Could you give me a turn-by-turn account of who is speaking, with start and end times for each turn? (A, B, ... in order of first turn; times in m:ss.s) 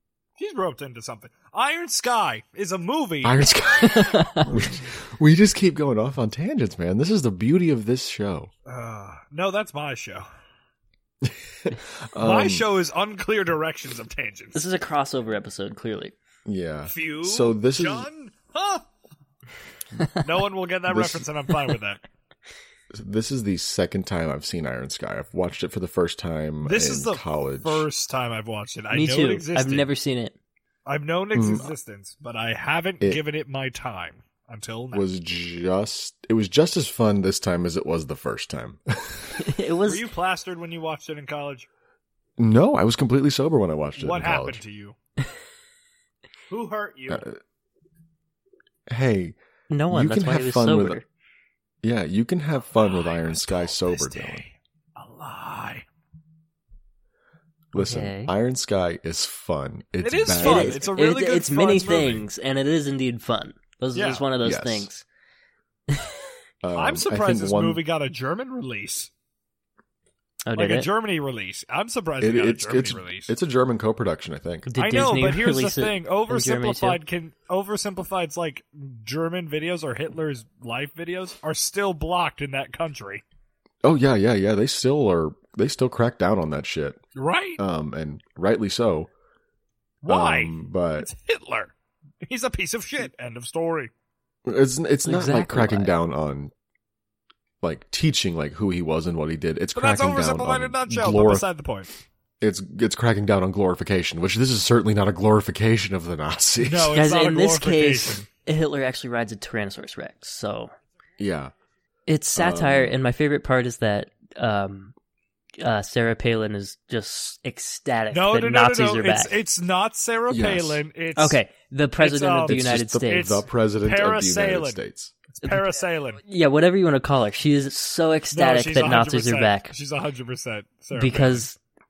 0:00.4-0:03.5 A
0:03.2-0:08.5 B
0:03.8-0:04.5 C
0:08.6-0:10.2 A
0:11.2-0:12.7 B
0:12.2-0:14.6 A
0:14.5-0:16.1 C
0:16.4-0:18.1 B
0:16.9-0:18.8 A
0:20.2-0:22.0 A
0:20.9-0:21.3 B
0:22.9-0:27.9 B
0:26.6-0:29.9 A
0:28.9-0:30.3 C
0:30.8-0:35.0 A
0:31.3-0:31.7 B
0:34.9-0:39.4 B
0:39.4-0:40.0 C
0:39.9-0:41.7 A
0:42.4-0:44.6 B
0:44.0-0:45.0 A
0:46.5-0:47.2 A
0:47.1-0:47.4 B
0:48.9-0:49.4 B
0:49.7-0:51.0 C
0:49.9-0:51.0 B
0:51.8-0:54.4 B
0:52.7-0:55.8 A
0:57.7-1:00.8 B
0:57.7-0:58.3 C
1:00.0-1:02.2 A
1:00.4-1:05.0 C
1:03.9-1:04.2 A
1:04.4-1:04.9 B
1:06.6-1:07.8 B
1:06.8-1:09.1 A
1:10.4-1:10.9 C
1:10.6-1:13.3 A
1:12.2-1:14.7 B
1:14.7-1:17.0 C
1:14.8-1:23.2 A
1:23.8-1:27.0 B
1:27.1-1:27.6 A
1:27.6-1:29.1 B
1:30.0-1:33.9 A
1:30.1-1:31.1 B
1:34.4-1:36.5 B
1:35.0-1:35.9 C
1:37.6-1:41.5 B
1:39.7-1:41.9 A
1:42.4-1:47.0 B
1:46.6-1:48.2 A
1:46.9-1:50.7 C
1:51.2-1:51.5 B
1:52.1-1:54.9 C
1:52.4-1:53.0 B
1:55.6-1:59.4 C
1:58.1-2:01.4 A
2:00.3-2:00.8 B
2:01.2-2:03.4 C
2:02.0-2:04.8 A
2:02.5-2:05.1 B
2:05.3-2:06.2 A
2:06.2-2:09.7 C
2:08.3-2:11.5 A
2:10.9-2:11.6 C